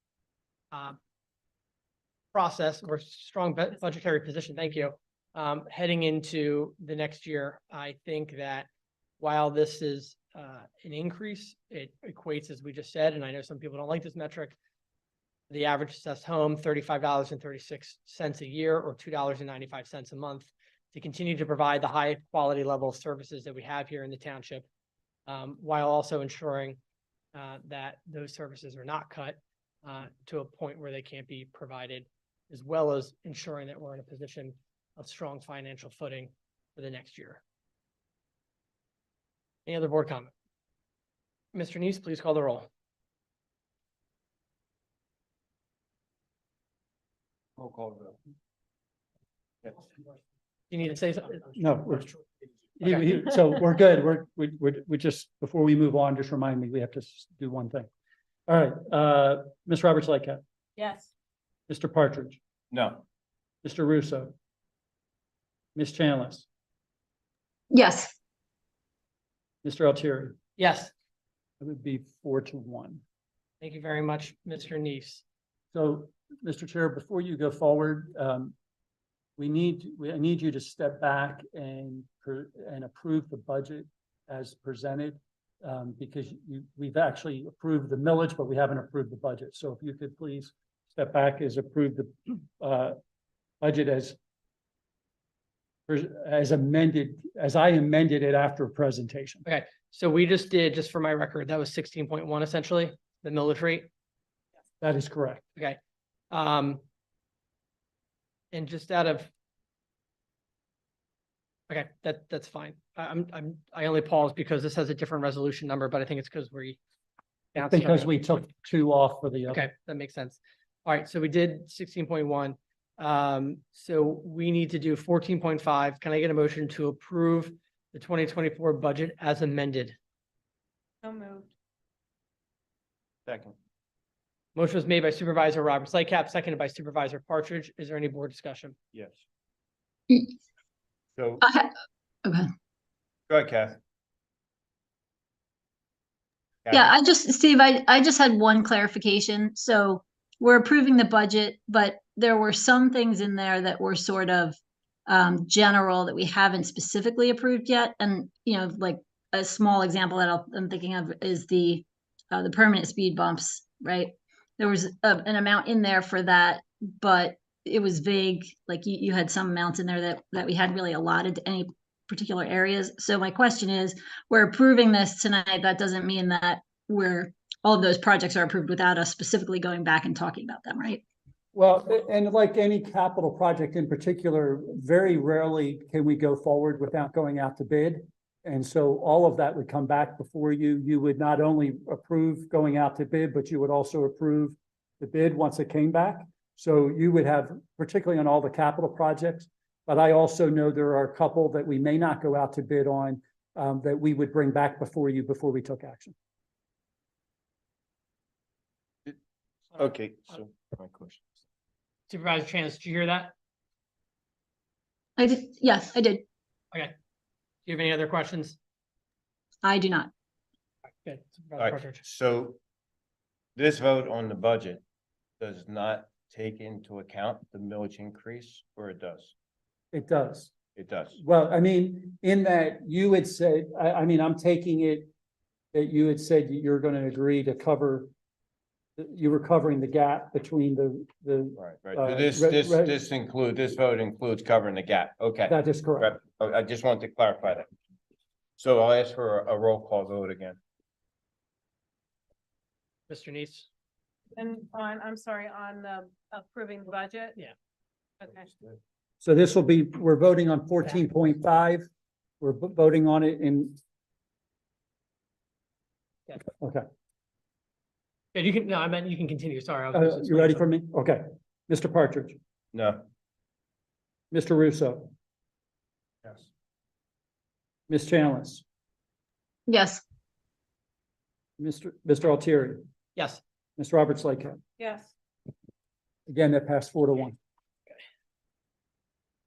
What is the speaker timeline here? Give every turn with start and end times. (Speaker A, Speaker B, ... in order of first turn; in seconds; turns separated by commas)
Speaker A: 0.7-1.0, Speaker A: 2.3-8.7, Speaker A: 9.2-14.6, Speaker A: 15.5-24.6, Speaker A: 25.3-26.8, Speaker A: 27.3-37.4, Speaker A: 39.6-40.3, Speaker A: 41.5-42.7, Speaker B: 47.6-48.1, Speaker A: 50.7-51.6, Speaker C: 51.6-52.1, Speaker C: 52.8-57.9, Speaker C: 58.5-60.4, Speaker D: 60.8-61.1, Speaker C: 61.7-62.4, Speaker B: 62.7-63.0, Speaker C: 63.6-64.3, Speaker C: 65.8-66.5, Speaker E: 67.7-68.2, Speaker C: 69.6-70.4, Speaker A: 70.6-70.9, Speaker C: 71.6-73.0, Speaker A: 73.6-75.2, Speaker C: 75.7-78.5, Speaker C: 79.4-93.0, Speaker C: 93.6-94.2, Speaker C: 95.9-99.4, Speaker A: 99.5-103.9, Speaker C: 104.8-105.4, Speaker A: 106.3-106.8, Speaker A: 108.5-109.3, Speaker A: 111.7-116.8, Speaker A: 117.5-118.1, Speaker C: 117.5-119.7, Speaker A: 119.5-129.9, Speaker D: 131.0-131.5, Speaker B: 133.3-133.5, Speaker A: 134.6-138.8, Speaker B: 138.9-139.2, Speaker E: 140.1-140.3, Speaker B: 141.2-141.4, Speaker E: 141.4-141.7, Speaker E: 142.2-142.5, Speaker B: 143.3-143.8, Speaker B: 146.7-146.9, Speaker E: 146.7-154.6, Speaker E: 155.1-181.0, Speaker C: 181.5-206.1, Speaker B: 209.7-211.2, Speaker A: 212.1-213.3, Speaker E: 215.2-216.2, Speaker A: 217.6-218.6, Speaker E: 219.6-220.1, Speaker A: 221.0-222.0, Speaker B: 221.6-222.6, Speaker B: 223.6-224.8, Speaker B: 225.4-229.3, Speaker C: 229.9-230.5, Speaker B: 230.8-231.2, Speaker C: 231.2-235.1, Speaker C: 235.7-238.1, Speaker C: 239.0-243.0, Speaker B: 241.6-247.7, Speaker C: 245.5-246.2, Speaker B: 248.6-250.6, Speaker A: 253.1-253.7, Speaker D: 254.3-257.4, Speaker D: 258.2-258.5, Speaker C: 259.2-261.9, Speaker C: 262.4-263.8, Speaker A: 268.3-270.6, Speaker C: 269.9-272.4, Speaker B: 272.7-273.0, Speaker C: 274.3-275.1, Speaker C: 277.9-278.6, Speaker E: 279.7-280.0, Speaker C: 281.6-282.8, Speaker A: 283.1-283.4, Speaker C: 283.8-284.6, Speaker D: 284.8-285.1, Speaker C: 286.3-287.4